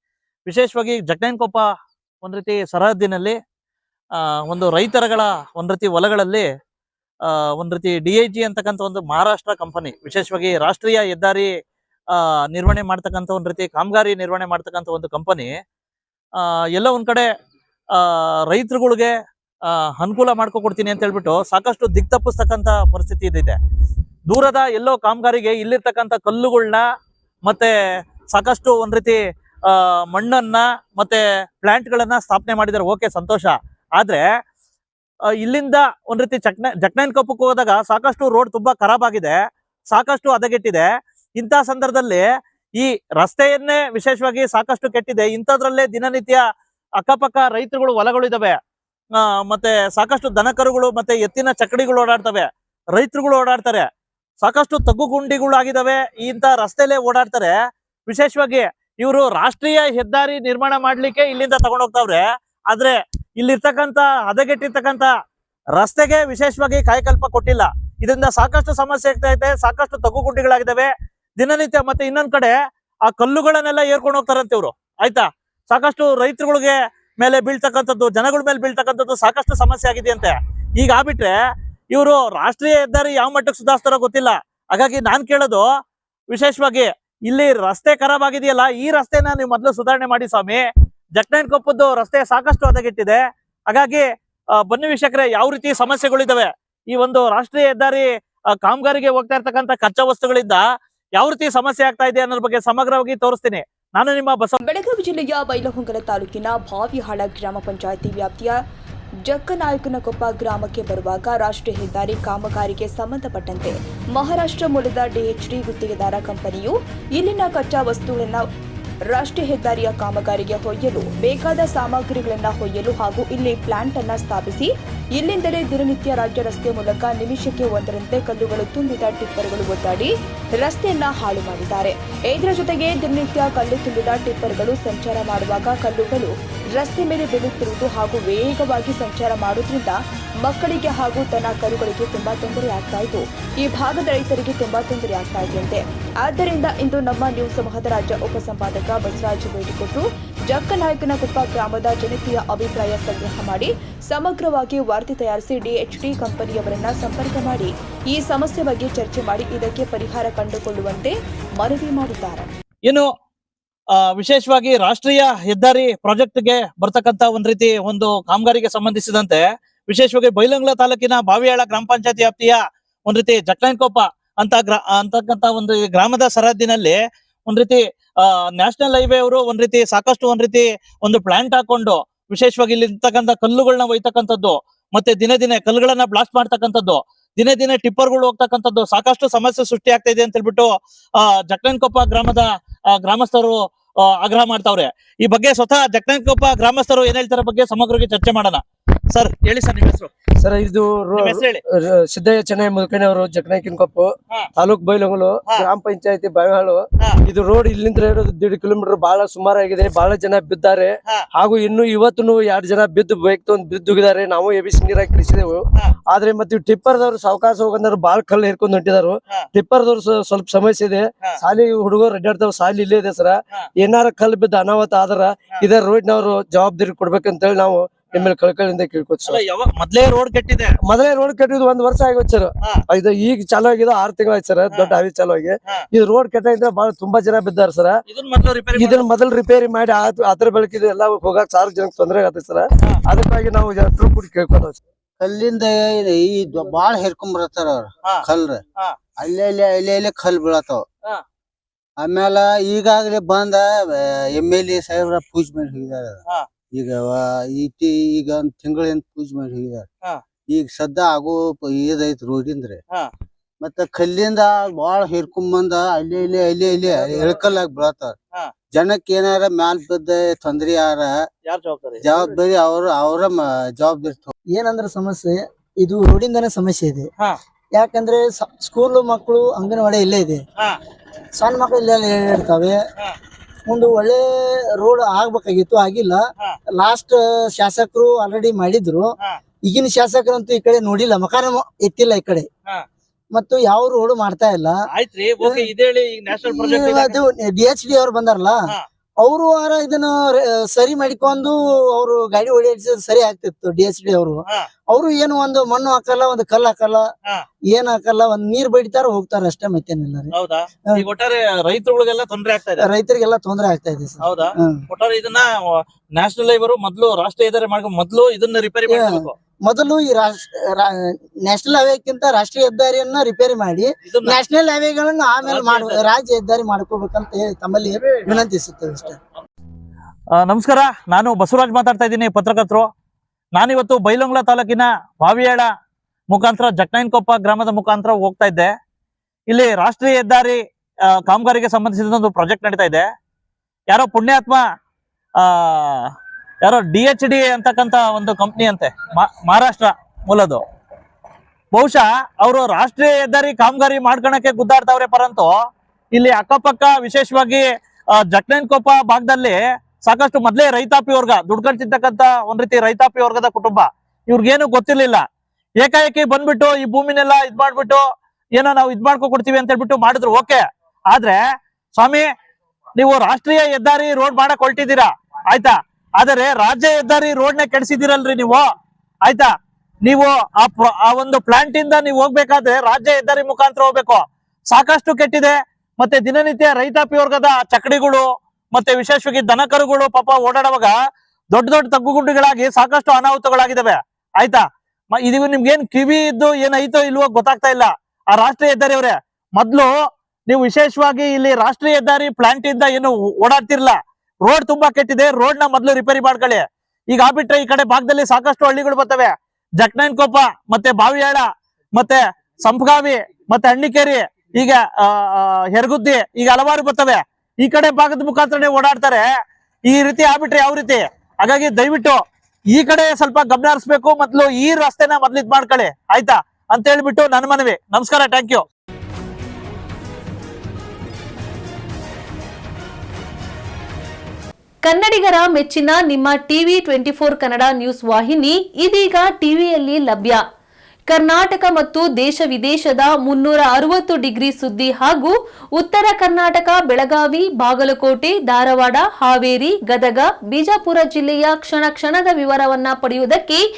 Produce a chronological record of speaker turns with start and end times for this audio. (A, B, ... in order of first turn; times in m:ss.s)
0:00.5-0:01.7 A
0:02.2-0:03.4 A
0:04.2-0:06.5 A
0:07.3-0:11.5 A
0:12.1-0:15.5 A
0:16.4-0:17.3 A
0:18.0-0:19.1 A
0:19.7-0:23.6 A
0:24.3-0:26.8 A
0:27.4-0:27.7 A
0:28.3-0:34.2 A
0:35.4-0:39.4 A
0:39.9-0:40.9 A
0:41.4-0:42.2 A
0:42.8-0:46.4 A
0:47.0-0:48.6 A
0:49.2-0:53.9 A
0:54.4-0:57.5 A
0:58.1-1:05.1 A
1:05.8-1:12.5 A
1:13.1-1:21.4 A
1:21.9-1:25.6 A
1:26.3-1:34.0 A
1:34.6-1:38.1 A
1:38.6-1:40.6 A
1:41.2-1:44.6 A
1:44.6-1:48.6 B
1:49.3-1:58.4 B
1:59.1-2:42.5 B
2:44.1-3:20.1 A
3:20.4-3:49.4 C
3:21.2-3:21.6 A
3:49.3-3:50.7 A
3:50.9-3:57.9 C
3:54.7-3:55.0 A
3:58.1-3:59.0 A
3:58.8-4:04.8 C
4:05.2-4:08.6 D
4:09.2-4:10.8 D
4:12.0-4:16.2 D
4:16.7-4:19.9 D
4:20.5-4:22.8 D
4:23.6-4:28.2 D
4:28.7-4:31.2 D
4:31.4-4:32.0 A
4:32.0-4:34.3 D
4:34.5-4:37.1 E
4:37.8-4:40.4 E
4:41.4-4:42.8 E
4:43.7-4:46.2 E
4:46.8-4:49.1 E
4:49.6-4:52.5 E
4:53.3-4:54.8 E
4:54.9-4:57.2 A
4:55.4-4:55.7 E
4:56.3-4:58.6 E
4:59.2-5:07.0 E
5:07.7-5:10.3 E
5:10.3-5:12.8 A
5:12.8-5:14.8 E
5:14.2-5:19.4 A
5:18.9-5:29.2 E
5:24.1-5:24.4 A
5:25.4-5:26.0 A
5:30.4-5:32.9 A
5:33.6-5:35.7 A
5:36.3-5:38.7 A
5:39.5-5:40.6 A
5:41.2-5:43.1 A
5:43.9-5:44.6 A
5:45.4-5:46.1 A
5:46.6-5:50.6 A
5:51.7-5:55.5 A
5:56.1-5:57.6 A
5:58.2-6:05.2 A
6:05.8-6:08.0 A
6:08.6-6:11.4 A
6:12.0-6:12.3 A
6:13.0-6:18.6 A
6:20.0-6:30.9 A
6:31.5-6:34.6 A
6:35.2-6:39.9 A
6:40.5-6:59.3 A
6:59.9-7:02.2 A
7:02.7-7:08.6 A
7:14.8-7:20.4 F
7:21.1-7:33.6 F